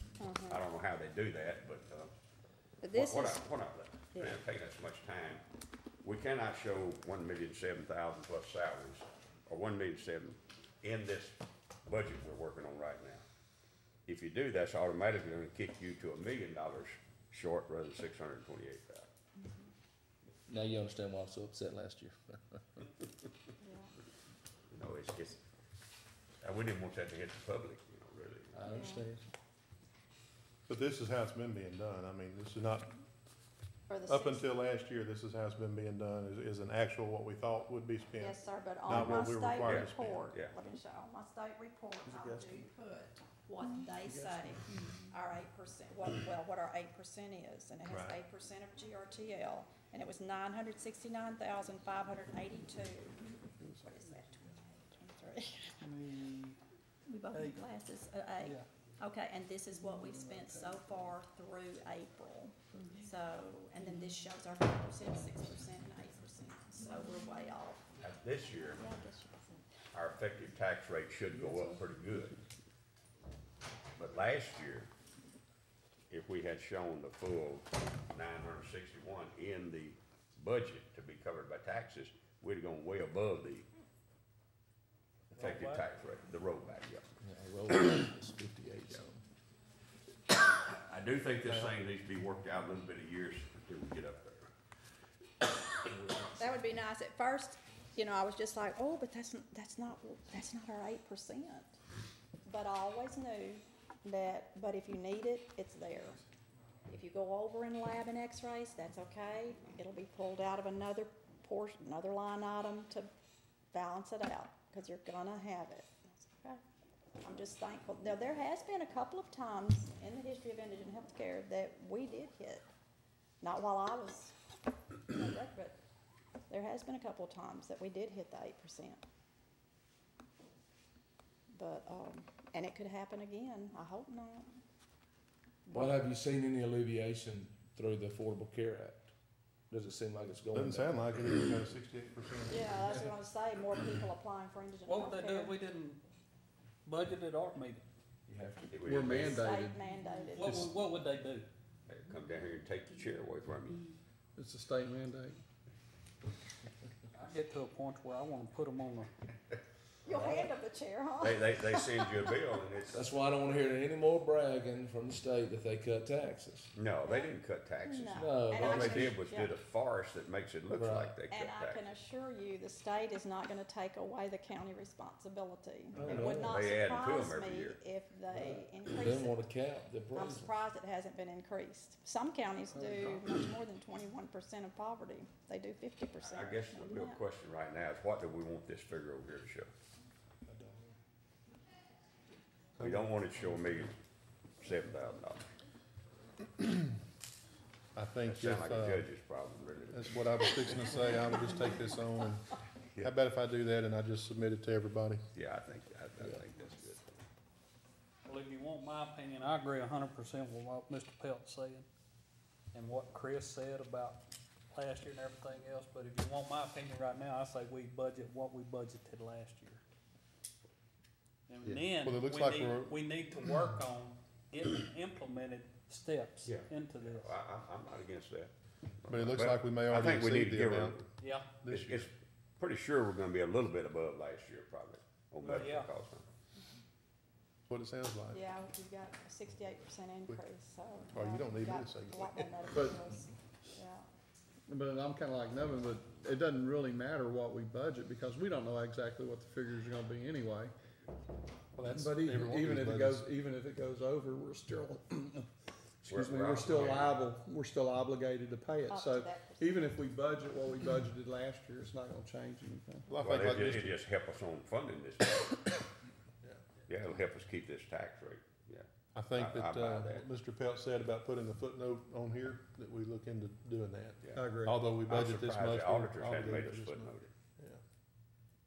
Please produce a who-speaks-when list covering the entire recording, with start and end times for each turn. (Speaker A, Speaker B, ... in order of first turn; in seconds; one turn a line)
Speaker A: 0.2-0.7
Speaker B: 0.5-2.1
Speaker A: 2.8-3.6
Speaker B: 2.9-5.4
Speaker A: 4.1-4.4
Speaker B: 6.0-13.2
Speaker B: 14.1-19.1
Speaker A: 19.4-19.6
Speaker C: 20.5-22.6
Speaker A: 23.6-23.9
Speaker B: 24.7-25.4
Speaker B: 26.4-28.6
Speaker C: 28.5-29.2
Speaker A: 28.7-29.1
Speaker D: 30.7-32.9
Speaker A: 33.9-34.5
Speaker D: 34.1-40.3
Speaker A: 38.2-55.9
Speaker B: 38.9-40.5
Speaker E: 42.0-42.6
Speaker E: 44.0-44.6
Speaker D: 47.8-48.2
Speaker F: 55.8-56.6
Speaker A: 57.1-67.9
Speaker F: 57.3-57.8
Speaker F: 60.1-60.7
Speaker B: 68.0-68.8
Speaker A: 68.7-69.5
Speaker B: 69.9-72.4
Speaker B: 74.0-74.9
Speaker B: 76.1-83.7
Speaker F: 85.3-85.8
Speaker B: 85.4-87.0
Speaker C: 87.2-89.2
Speaker B: 90.3-94.5
Speaker C: 91.4-91.7
Speaker B: 95.8-96.3
Speaker A: 96.3-101.8
Speaker A: 102.5-106.2
Speaker A: 106.9-113.1
Speaker A: 113.7-116.6
Speaker A: 117.2-122.7
Speaker A: 123.4-124.3
Speaker A: 125.1-125.8
Speaker A: 126.5-129.0
Speaker A: 131.5-134.5
Speaker A: 135.7-136.0
Speaker C: 135.7-139.1
Speaker C: 139.7-141.1
Speaker D: 140.5-142.9
Speaker A: 142.5-145.6
Speaker F: 144.9-146.0
Speaker F: 146.8-147.8
Speaker C: 148.3-149.1
Speaker B: 148.7-149.3
Speaker E: 148.8-149.8
Speaker A: 149.2-150.6
Speaker F: 150.3-151.5
Speaker E: 150.4-150.7
Speaker B: 151.9-153.8
Speaker E: 154.3-155.4
Speaker F: 157.1-159.1
Speaker A: 160.1-162.4
Speaker B: 161.2-163.1
Speaker C: 162.9-166.7
Speaker B: 166.7-171.8
Speaker A: 167.0-169.6
Speaker C: 168.2-169.2
Speaker C: 170.7-171.2
Speaker A: 171.3-179.5
Speaker C: 175.9-176.7
Speaker B: 176.1-177.8
Speaker C: 178.9-180.5
Speaker A: 180.1-187.2
Speaker B: 186.2-189.7
Speaker D: 190.5-190.9
Speaker B: 192.8-194.0
Speaker D: 192.8-193.0
Speaker B: 194.6-195.5
Speaker D: 196.6-196.9
Speaker D: 197.9-199.1
Speaker B: 198.2-201.0
Speaker D: 199.9-202.5
Speaker D: 203.0-205.2
Speaker B: 205.3-207.2
Speaker F: 208.2-211.9
Speaker F: 212.7-214.2
Speaker F: 214.7-219.8
Speaker F: 221.5-227.3
Speaker D: 221.6-222.9
Speaker B: 226.4-228.5
Speaker B: 229.0-231.1
Speaker D: 229.1-231.0
Speaker F: 231.2-231.5
Speaker D: 231.6-232.1
Speaker B: 231.7-236.3
Speaker F: 235.4-235.9
Speaker D: 237.7-238.4
Speaker A: 238.3-244.1
Speaker D: 241.1-242.7
Speaker E: 242.7-243.0
Speaker E: 244.7-250.7
Speaker D: 251.8-253.2
Speaker E: 251.9-255.5
Speaker B: 256.0-257.2
Speaker E: 256.1-263.1
Speaker A: 258.9-260.1
Speaker D: 263.1-264.0
Speaker B: 263.2-265.7
Speaker B: 266.9-270.3
Speaker D: 269.1-277.8
Speaker E: 274.3-274.9
Speaker B: 275.0-277.3